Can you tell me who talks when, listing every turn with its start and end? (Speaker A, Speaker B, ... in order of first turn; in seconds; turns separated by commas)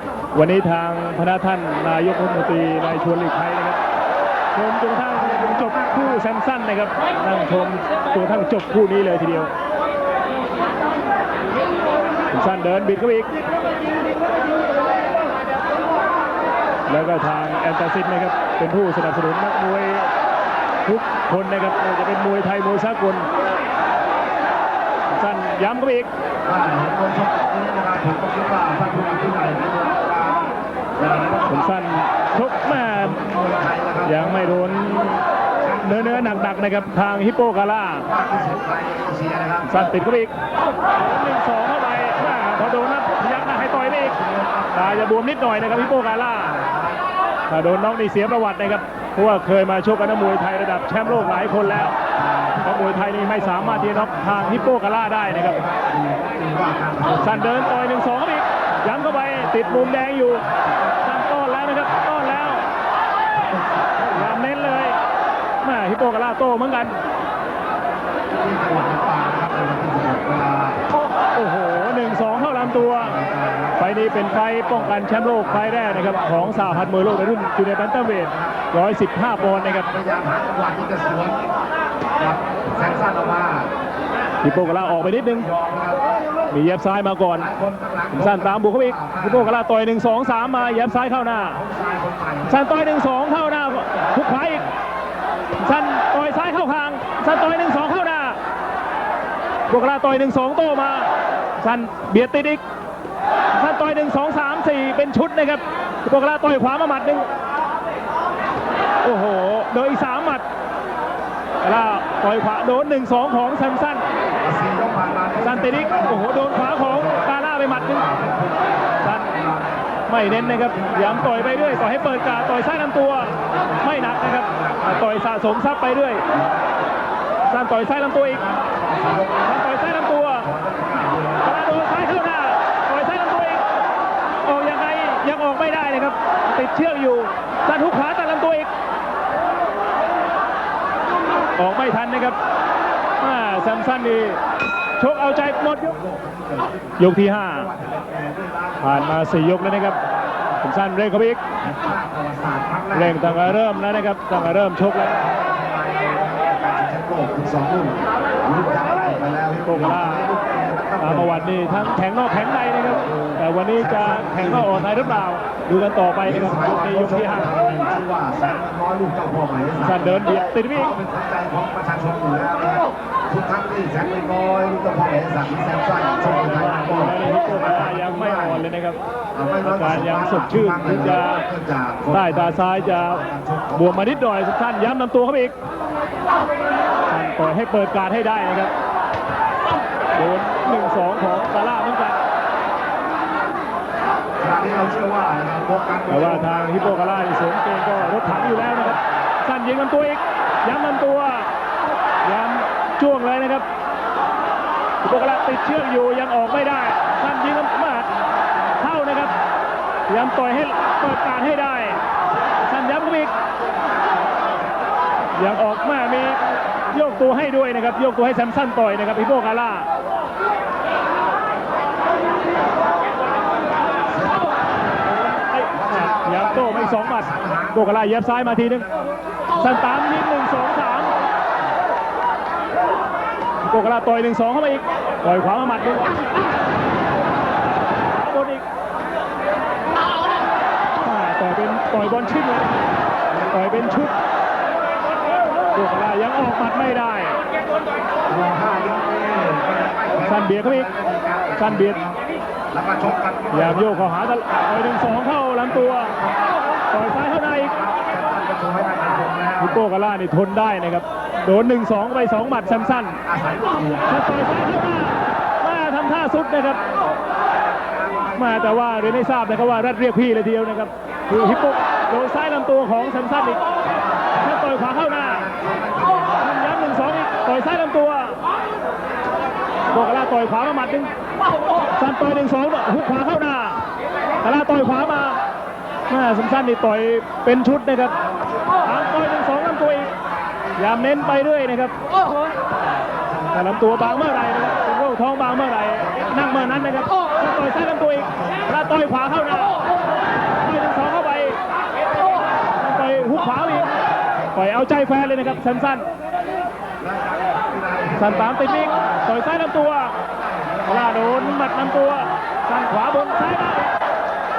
Speaker A: 0.3-3.8, Speaker A: 4.5-9.5, Speaker A: 12.3-13.3, Speaker A: 16.9-20.1, Speaker A: 20.8-23.3, Speaker A: 25.1-26.1, Speaker B: 26.4-31.5, Speaker A: 31.4-33.2, Speaker B: 32.9-34.7, Speaker A: 34.0-35.2, Speaker B: 35.7-36.6, Speaker A: 35.8-38.1, Speaker B: 38.1-39.6, Speaker A: 39.6-40.3, Speaker A: 41.0-44.2, Speaker B: 43.7-44.7, Speaker A: 44.7-46.6, Speaker A: 47.5-51.9, Speaker B: 52.5-54.6, Speaker A: 52.6-55.6, Speaker B: 55.6-57.3, Speaker A: 57.2-60.4, Speaker A: 61.0-62.6, Speaker B: 63.7-64.1, Speaker A: 64.1-65.0, Speaker A: 65.6-67.0, Speaker B: 68.3-70.7, Speaker A: 71.3-73.2, Speaker B: 73.0-73.8, Speaker A: 73.8-79.9, Speaker B: 75.7-76.4, Speaker B: 79.9-81.4, Speaker B: 82.2-83.7, Speaker A: 84.4-85.5, Speaker B: 85.1-86.2, Speaker A: 86.5-87.5, Speaker B: 87.5-89.2, Speaker A: 88.1-91.6, Speaker B: 91.6-92.5, Speaker A: 92.5-94.7, Speaker A: 95.6-98.4, Speaker A: 99.7-102.6, Speaker A: 103.5-107.3, Speaker A: 109.0-110.4, Speaker A: 111.6-114.0, Speaker B: 114.4-116.0, Speaker A: 115.4-118.1, Speaker B: 118.0-119.5, Speaker A: 119.0-119.3, Speaker A: 120.1-126.2, Speaker B: 120.5-122.4, Speaker B: 123.8-124.8, Speaker A: 127.5-128.5, Speaker B: 128.4-129.4, Speaker A: 129.4-130.5, Speaker B: 130.5-131.3, Speaker A: 131.4-133.6, Speaker A: 134.4-138.7, Speaker A: 141.6-142.4, Speaker A: 143.2-144.4, Speaker A: 145.0-146.0, Speaker B: 146.1-148.9, Speaker A: 147.0-147.7, Speaker A: 148.8-150.0, Speaker A: 150.6-151.4, Speaker B: 151.7-153.3, Speaker A: 152.9-155.2, Speaker B: 155.3-161.9, Speaker A: 159.6-160.3, Speaker A: 161.0-167.6, Speaker B: 164.1-165.0, Speaker B: 166.5-170.1, Speaker A: 169.8-171.0, Speaker B: 170.9-178.6, Speaker A: 176.2-179.0, Speaker B: 179.4-183.9, Speaker A: 179.6-181.4, Speaker A: 182.1-185.5, Speaker A: 187.1-188.7, Speaker A: 190.1-192.2, Speaker B: 194.4-197.1, Speaker A: 196.1-201.5, Speaker A: 202.2-203.6, Speaker A: 205.0-208.1, Speaker A: 208.8-209.3, Speaker A: 210.1-212.0, Speaker A: 212.6-213.3, Speaker A: 215.3-219.9, Speaker A: 225.5-228.9, Speaker B: 225.8-227.7, Speaker A: 229.5-231.1, Speaker A: 233.6-236.3, Speaker A: 238.0-238.6, Speaker A: 241.0-242.9, Speaker A: 243.5-244.1, Speaker A: 245.7-247.4, Speaker B: 248.3-252.1, Speaker A: 250.2-250.9, Speaker A: 251.6-252.1, Speaker B: 252.7-253.9, Speaker A: 253.5-256.1, Speaker A: 256.9-257.7, Speaker B: 257.9-259.6, Speaker A: 259.6-263.2, Speaker B: 263.3-264.0, Speaker A: 264.1-266.9, Speaker A: 268.4-273.6, Speaker A: 274.3-275.5, Speaker B: 275.4-276.3, Speaker A: 276.4-278.4, Speaker A: 279.9-281.1, Speaker A: 281.9-283.8, Speaker A: 284.4-285.4, Speaker A: 286.1-288.2, Speaker A: 288.8-290.1, Speaker A: 290.8-291.9, Speaker A: 293.5-299.8, Speaker A: 300.4-301.6, Speaker A: 302.7-303.9, Speaker A: 304.5-306.1, Speaker B: 307.0-308.3, Speaker A: 308.1-310.1, Speaker A: 310.9-313.9, Speaker B: 311.0-311.9